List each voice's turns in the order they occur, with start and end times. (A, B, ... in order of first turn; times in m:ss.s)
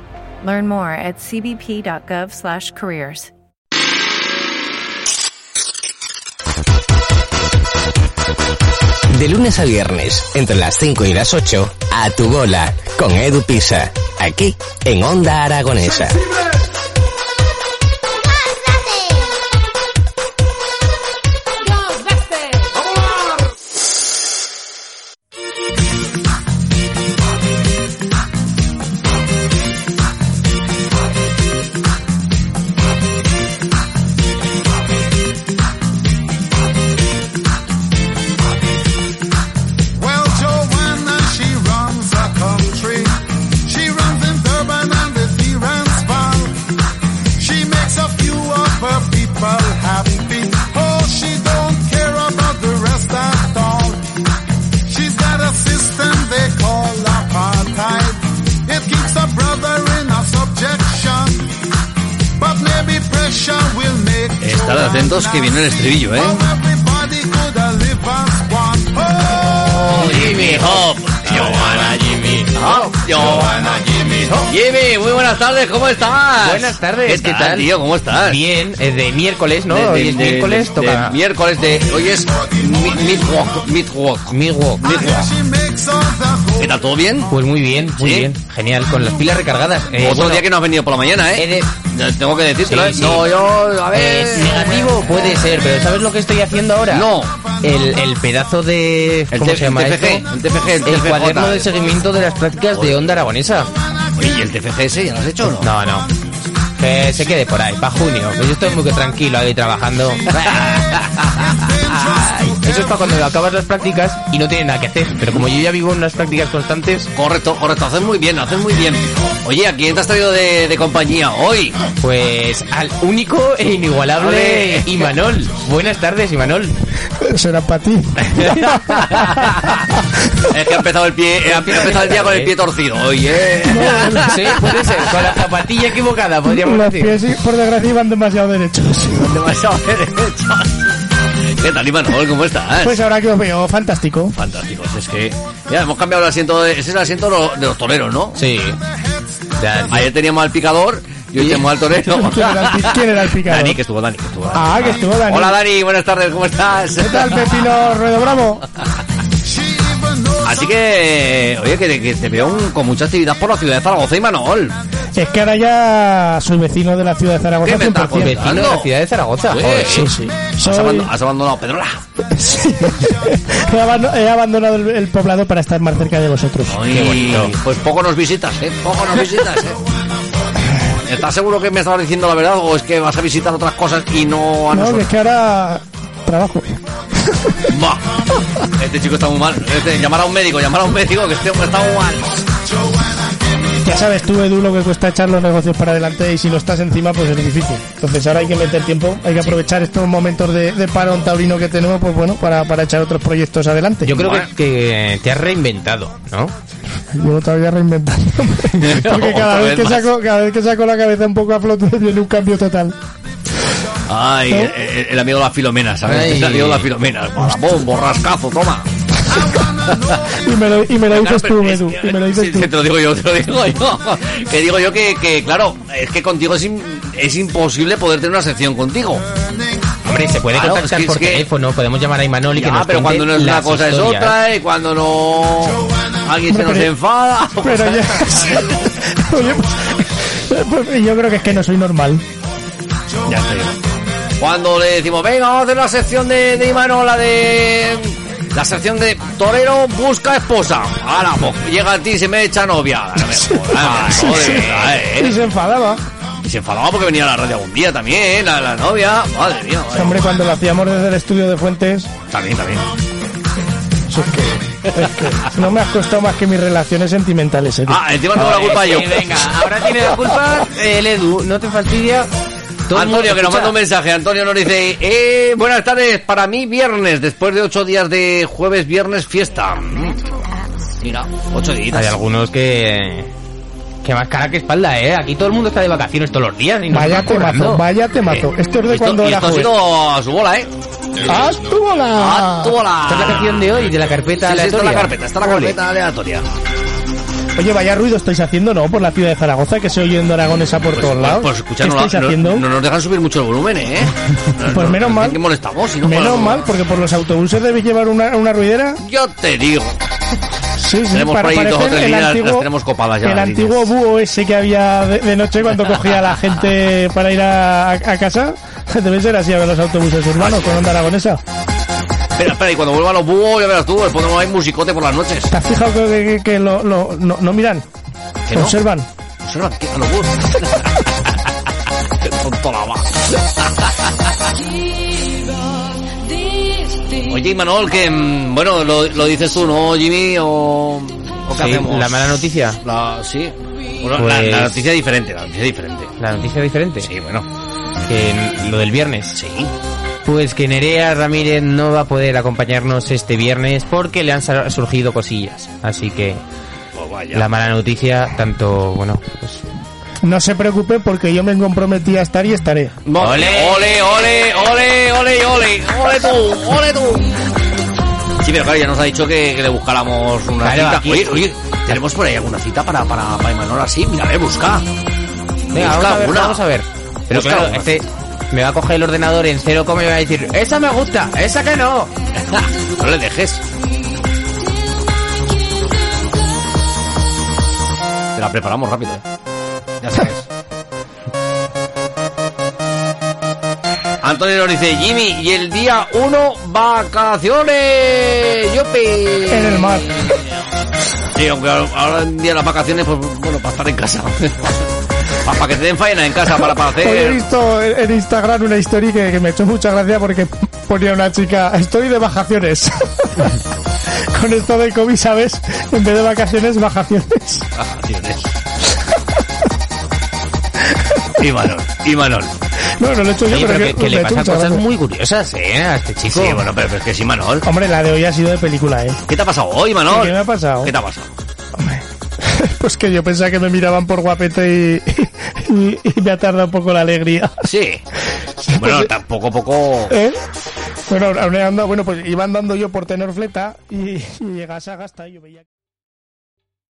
0:00.4-0:03.3 A
0:09.1-0:16.2 B
0:40.0-0:46.6 C
0:47.4-0:54.1 C
0:54.9-1:01.5 C
1:02.4-1:04.4 C
1:04.4-1:06.5 D
1:06.6-1:09.5 C
1:09.5-1:13.1 E
1:09.7-1:12.0 D
1:12.5-1:18.4 D
1:14.0-1:14.5 E
1:16.4-1:21.2 E
1:19.7-1:25.3 D
1:24.3-1:25.0 E
1:25.4-1:26.5 C
1:26.5-1:27.3 D
1:27.3-1:30.5 E
1:28.0-1:28.3 D
1:30.0-1:35.6 D
1:31.3-1:31.7 E
1:32.6-1:33.3 E
1:33.9-1:40.3 E
1:36.9-1:37.5 D
1:39.3-1:41.7 D
1:40.8-1:43.7 E
1:42.7-1:43.0 D
1:44.2-1:45.7 D
1:45.5-1:46.1 E
1:46.8-1:50.7 E
1:50.3-1:51.4 D
1:52.0-1:57.1 E
1:52.1-1:52.4 D
1:57.2-2:01.8 D
2:02.0-2:06.8 E
2:04.2-2:04.9 D
2:07.2-2:09.6 F
2:08.4-2:09.5 E
2:10.5-2:15.1 D
2:11.5-2:12.6 E
2:13.6-2:14.6 F
2:13.8-2:17.2 E
2:16.5-2:19.4 F
2:19.2-2:23.0 D
2:22.8-2:24.4 F
2:24.4-2:28.4 D
2:28.4-2:28.8 E
2:29.6-2:30.1 E
2:29.9-2:37.5 D
2:32.1-2:33.8 F
2:34.5-2:35.6 F
2:37.0-2:38.6 F
2:39.7-2:40.3 C
2:40.4-2:44.8 D
2:45.2-2:48.4 F
2:47.6-2:48.9 D
2:48.1-2:50.1 E
2:49.5-2:52.0 D
2:50.0-2:51.1 F
2:52.3-2:56.8 F
2:56.7-2:59.8 D
2:56.9-2:57.6 E
3:00.9-3:05.1 D
3:04.7-3:07.7 F
3:07.7-3:08.2 D
3:08.8-3:12.4 D
3:13.8-3:24.2 F
3:24.0-3:26.6 E
3:24.2-3:24.5 D
3:27.1-3:33.0 F
3:28.7-3:30.0 D
3:34.1-3:40.4 D
3:36.1-3:36.9 E
3:40.3-3:42.7 F
3:41.1-3:49.3 D
3:50.0-3:54.4 E
3:50.5-3:51.4 D
3:52.5-3:58.4 D
3:56.5-3:56.9 F
3:57.6-4:02.2 F
4:03.2-4:03.8 D
4:04.4-4:15.3 D
4:13.4-4:16.0 F
4:16.4-4:20.2 D
4:19.9-4:22.1 F
4:22.3-4:22.9 D
4:24.1-4:28.0 F
4:27.9-4:29.5 D
4:28.3-4:32.3 E
4:32.9-4:33.8 E
4:32.9-4:40.3 D
4:41.0-4:42.2 D
4:41.9-4:43.3 E
4:44.0-4:47.8 E
4:46.9-4:49.7 F
4:48.3-4:50.7 D
4:51.2-4:52.8 F
4:52.2-4:53.7 D
4:53.1-4:55.8 E
4:54.4-4:56.5 D
4:57.6-5:02.7 F
5:00.9-5:06.7 D
5:04.7-5:05.4 F
5:06.0-5:09.0 F
5:09.0-5:10.0 D
5:10.8-5:12.7 F
5:11.1-5:13.9 D
5:13.2-5:21.4 F
5:20.4-5:20.9 D
5:22.4-5:25.5 D
5:25.5-5:27.8 F
5:28.5-5:28.8 D
5:28.5-5:29.1 F
5:29.4-5:31.5 D
5:32.1-5:34.1 D
5:37.1-5:46.1 D
5:41.5-5:42.8 E
5:44.2-5:44.9 E
5:46.2-5:47.1 E
5:47.0-5:47.5 D
5:48.1-5:49.4 E
5:49.3-5:49.7 D
5:50.2-5:56.4 E
5:57.0-5:57.5 D
5:57.3-5:59.6 E
6:00.2-6:03.0 F
6:03.1-6:07.3 D
6:03.2-6:04.0 E
6:08.4-6:14.8 D
6:10.6-6:12.0 E
6:15.7-6:22.1 E
6:15.7-6:16.6 D
6:17.3-6:17.9 D
6:22.5-6:23.6 D
6:28.4-6:29.2 D
6:30.0-6:30.5 D
6:34.2-6:40.4 D
6:39.5-6:40.3 F
6:41.4-6:47.4 D
6:46.9-6:53.6 F
6:54.3-6:57.6 F
6:57.8-6:58.6 D
7:01.4-7:02.5 D
7:03.0-7:04.9 F
7:03.5-7:06.7 E
7:06.3-7:07.7 D
7:07.6-7:09.2 F
7:09.3-7:11.3 D
7:10.1-7:10.9 F
7:11.8-7:17.6 F
7:17.6-7:18.0 D
7:18.7-7:20.1 D
7:18.7-7:19.1 F
7:20.1-7:20.4 F
7:21.1-7:25.6 F